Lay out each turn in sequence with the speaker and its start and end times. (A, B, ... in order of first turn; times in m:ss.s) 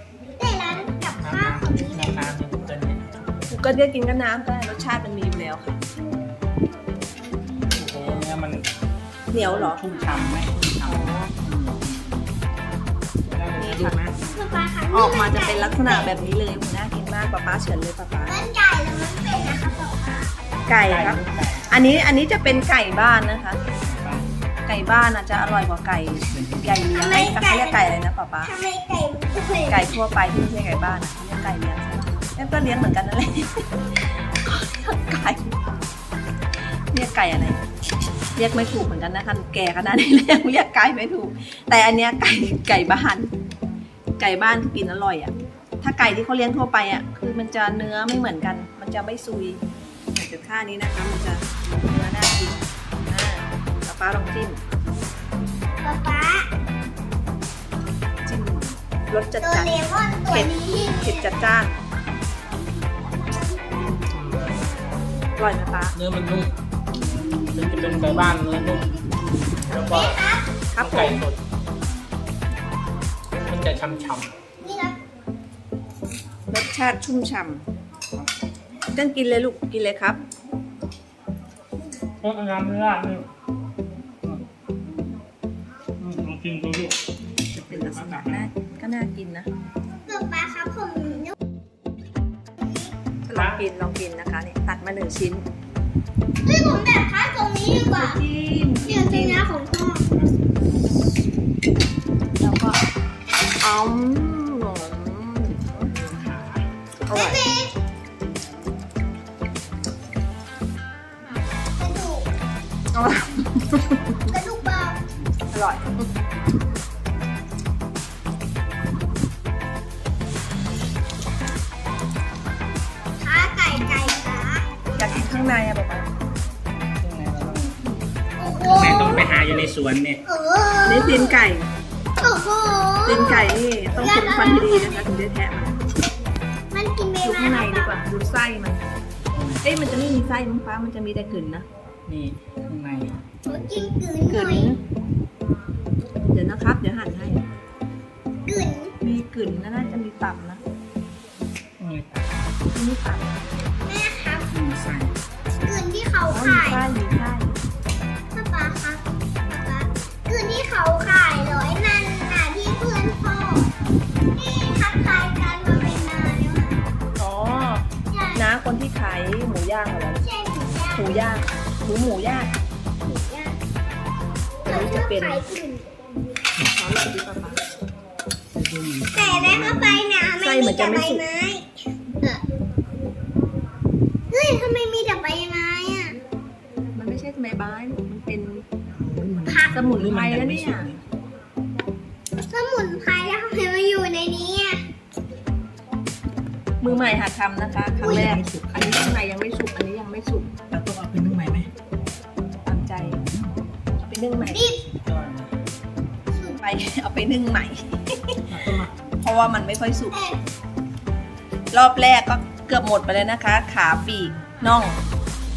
0:00.4-0:02.2 A
0:01.2-0:03.6 B
0:03.5-0:05.8 C
0:07.7-0:08.7 B
0:08.0-0:08.3 C
0:09.3-0:09.8 C
0:09.3-0:11.1 B
0:10.9-0:11.6 C
0:13.2-0:14.2 B
0:13.6-0:14.0 C
0:14.3-0:16.2 A
0:14.9-0:18.4 C
0:18.3-0:20.3 A
0:20.7-0:23.6 C
0:20.9-0:21.7 B
0:23.8-0:24.3 B
0:24.7-0:28.5 C
0:26.2-0:26.8 B
0:27.0-0:27.9 A
0:28.4-0:30.0 A
0:29.7-0:35.5 C
0:36.9-0:37.6 C
0:38.4-0:43.3 C
0:44.2-0:49.6 C
0:50.1-0:52.6 C
0:53.1-0:54.6 C
0:55.8-0:56.5 A
0:58.3-0:59.7 C
0:59.4-1:01.3 A
1:00.3-1:01.8 C
1:03.0-1:04.5 A
1:04.1-1:04.6 B
1:05.4-1:06.0 C
1:05.9-1:06.5 B
1:07.1-1:09.0 A
1:07.6-1:08.9 B
1:09.7-1:10.1 B
1:09.7-1:10.1 C
1:09.7-1:10.5 A
1:10.7-1:11.2 C
1:10.8-1:11.4 B
1:13.5-1:14.3 B
1:14.6-1:15.0 A
1:16.5-1:17.6 C
1:18.9-1:20.2 C
1:22.2-1:23.3 B
1:26.0-1:27.0 B
1:27.5-1:28.5 B
1:27.6-1:29.5 C
1:30.1-1:31.4 A
1:32.6-1:32.9 A
1:33.3-1:35.5 C
1:33.3-1:33.6 B
1:36.4-1:38.2 A
1:37.8-1:39.4 C
1:38.9-1:40.2 A
1:40.1-1:40.5 B
1:42.4-1:42.8 C
1:43.5-1:45.9 C
1:45.9-1:46.7 B
1:47.1-1:47.4 C
1:47.1-1:47.7 A
1:51.8-1:52.3 A
1:52.9-1:54.3 C
1:54.3-1:55.0 A
1:55.5-1:56.1 C
2:03.2-2:04.7 A
2:05.0-2:06.1 C
2:07.0-2:07.9 B
2:08.4-2:09.4 A
2:08.6-2:10.2 B
2:10.3-2:11.4 A
2:10.8-2:11.7 C
2:12.2-2:15.1 A
2:13.0-2:15.8 C
2:16.7-2:18.0 A
2:17.2-2:18.8 C
2:19.2-2:19.8 B
2:19.6-2:21.7 C
2:22.1-2:23.2 B
2:23.5-2:24.7 A
2:24.3-2:24.8 C
2:26.3-2:27.4 C
2:28.4-2:29.0 A
2:29.0-2:30.6 C
2:31.8-2:32.3 B
2:32.7-2:33.3 C
2:33.9-2:34.5 A
2:34.5-2:35.2 B
2:35.6-2:36.8 A
2:36.3-2:37.6 C
2:38.3-2:43.7 A
2:44.3-2:46.8 A
2:47.2-2:50.2 C
2:48.1-2:48.5 A
2:50.2-2:51.1 A
2:50.9-2:52.5 C
2:53.0-2:53.6 A
2:54.7-2:55.9 A
2:54.7-2:55.4 C
2:56.6-2:57.6 C
2:58.5-3:00.0 B
2:59.1-3:02.4 A
3:00.4-3:01.2 C
3:04.3-3:06.2 A
3:06.9-3:08.6 C
3:08.9-3:11.0 B
3:09.5-3:09.9 A
3:09.7-3:10.9 C
3:12.4-3:14.8 A
3:16.8-3:20.5 C
3:16.8-3:17.2 B
3:18.0-3:19.2 B
3:20.7-3:21.7 B
3:22.7-3:23.2 C
3:22.9-3:23.4 B
3:24.0-3:24.7 C
3:24.5-3:24.8 A
3:24.7-3:25.6 B
3:26.3-3:26.6 A
3:26.6-3:28.4 C
3:28.5-3:29.0 B
3:29.2-3:30.1 C
3:30.1-3:30.4 A
3:31.7-3:35.0 C